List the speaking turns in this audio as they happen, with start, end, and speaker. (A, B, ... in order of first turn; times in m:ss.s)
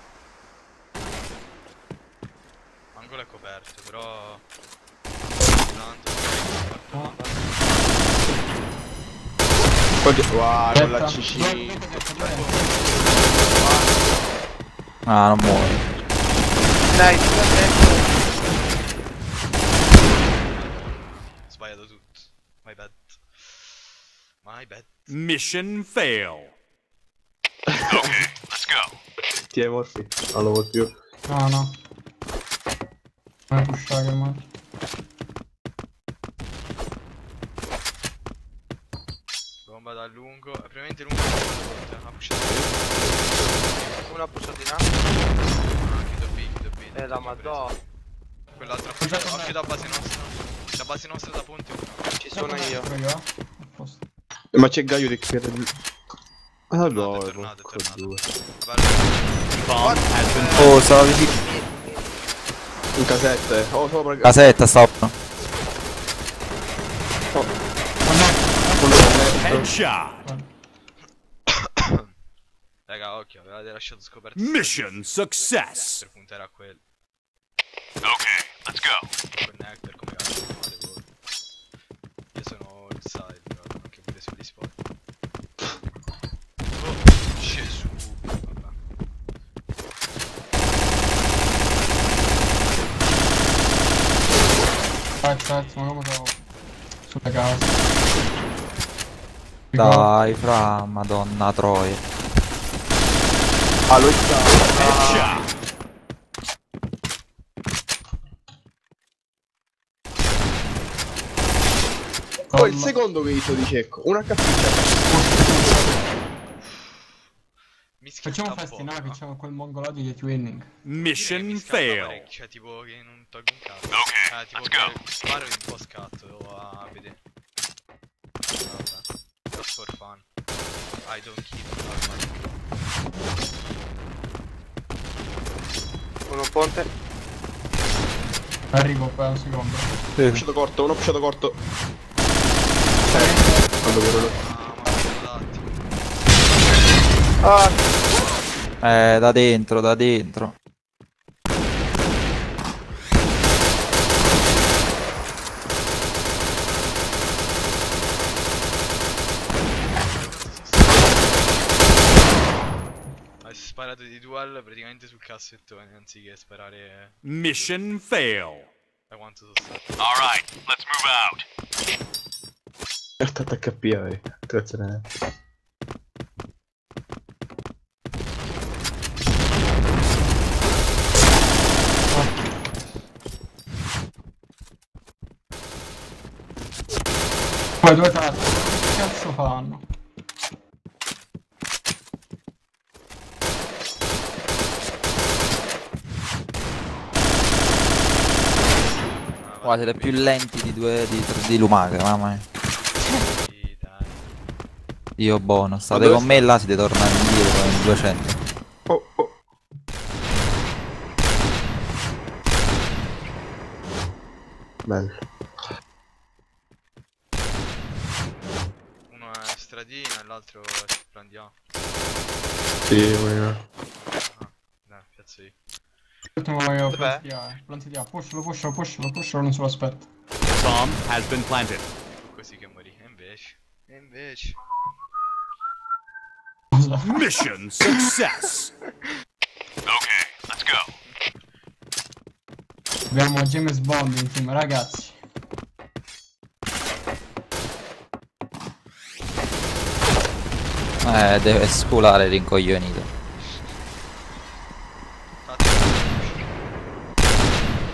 0:02.9-0:04.4 A
0:05.5-0:08.2 A
0:10.0-0:11.9 B
0:10.7-0:12.8 C
0:12.1-0:14.4 A
0:15.0-0:15.8 D
0:15.9-0:16.4 A
0:16.8-0:18.2 E
0:18.2-0:23.9 A
0:24.4-0:25.1 A
0:25.1-0:26.5 F
0:27.7-0:28.3 B
0:27.9-0:28.9 F
0:29.4-0:30.9 B
0:31.3-0:31.7 C
0:33.5-0:34.4 C
0:39.6-0:44.2 A
0:42.4-0:43.4 B
0:44.1-0:44.9 E
0:45.6-0:47.9 A
0:46.9-0:47.7 E
0:48.6-0:52.1 A
0:49.0-0:50.0 C
0:52.2-0:52.9 E
0:52.3-0:54.0 C
0:54.5-0:55.7 B
0:56.7-0:58.2 B
0:56.8-0:59.6 A
0:59.6-1:00.9 F
0:59.8-1:02.2 E
1:00.5-1:01.3 D
1:03.0-1:04.6 B
1:04.2-1:05.1 D
1:05.3-1:06.4 A
1:08.0-1:09.5 C
1:08.8-1:09.7 B
1:09.4-1:10.3 F
1:11.5-1:12.1 A
1:12.9-1:15.1 A
1:14.4-1:16.0 F
1:16.0-1:16.8 A
1:18.0-1:19.1 F
1:19.3-1:21.1 A
1:22.3-1:24.7 A
1:26.7-1:28.8 A
1:35.2-1:36.4 C
1:35.2-1:35.9 A
1:37.1-1:37.8 C
1:39.7-1:40.1 C
1:39.7-1:42.0 D
1:43.9-1:44.8 B
1:44.7-1:45.4 E
1:44.7-1:45.5 F
1:52.5-1:53.0 C
1:52.5-1:55.0 B
1:55.1-1:56.0 C
1:58.0-1:59.2 A
1:58.2-2:00.7 C
2:00.8-2:02.3 F
2:01.1-2:07.2 A
2:08.6-2:10.2 A
2:11.0-2:12.6 A
2:16.3-2:16.9 E
2:18.7-2:20.0 C
2:20.2-2:21.6 B
2:23.0-2:24.2 C
2:23.0-2:24.4 B
2:24.4-2:25.8 A
2:27.4-2:27.8 E
2:28.8-2:30.5 D
2:39.9-2:42.2 A
2:43.4-2:47.7 A
2:47.2-2:48.7 F
2:49.1-2:49.9 A
2:50.0-2:51.4 F
2:53.2-2:55.1 B
3:02.1-3:02.5 C
3:07.8-3:09.8 C
3:19.2-3:20.4 A
3:19.6-3:22.4 D
3:23.2-3:24.3 A
3:25.2-3:28.4 D
3:25.9-3:26.4 B
3:28.9-3:29.4 B
3:34.8-3:35.2 B
3:39.1-3:41.5 A
3:42.9-3:43.6 B
3:44.1-3:45.5 A
3:46.4-3:50.1 C
3:46.9-3:47.2 E
3:50.5-3:51.9 F
3:52.1-3:54.6 A
3:56.7-3:57.2 C
3:57.0-3:58.7 F
4:03.1-4:05.2 C
4:11.0-4:13.1 D
4:15.4-4:16.8 A